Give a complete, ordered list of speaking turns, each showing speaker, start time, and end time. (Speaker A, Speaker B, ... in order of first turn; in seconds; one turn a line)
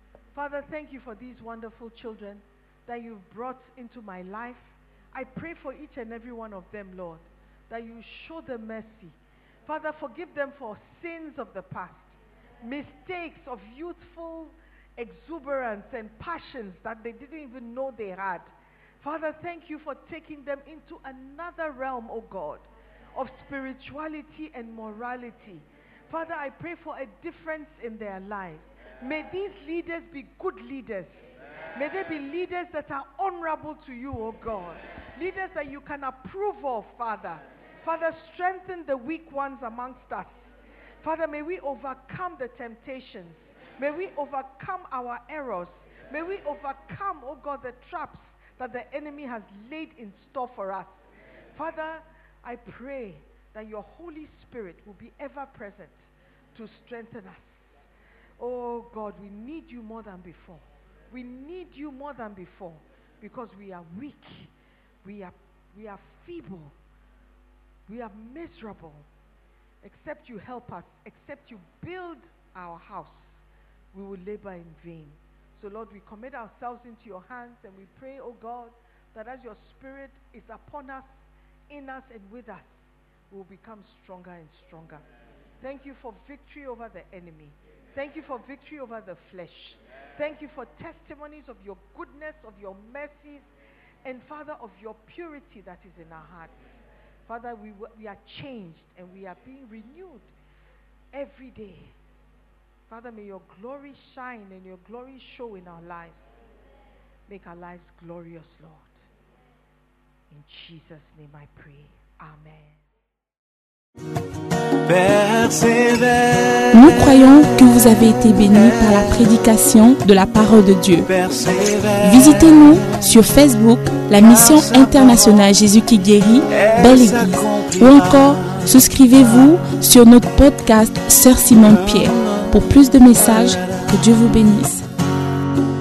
Speaker A: 0.3-31.2
Speaker A: 31.7-40.4
Speaker A: 41.0-51.0
Speaker A: 51.5-56.0
Speaker A: 56.5-57.5
Speaker A: 58.4-64.5
Speaker A: 65.0-66.8
Speaker A: 67.9-69.1
Speaker A: 69.8-73.3
Speaker A: 73.9-81.1
Speaker A: 81.7-82.7
Speaker A: 83.3-85.0
Speaker A: 85.6-93.5
Speaker A: 94.0-96.5
Speaker A: 97.3-100.3
Speaker A: 101.1-102.0
Speaker A: 102.9-106.2
Speaker A: 107.3-109.0
Speaker A: 110.3-112.8
Speaker B: 114.8-119.3
Speaker C: 116.7-121.1
Speaker B: 121.0-123.0
Speaker C: 122.0-134.9
Speaker B: 124.2-125.6
Speaker B: 126.5-129.5
Speaker B: 131.6-133.9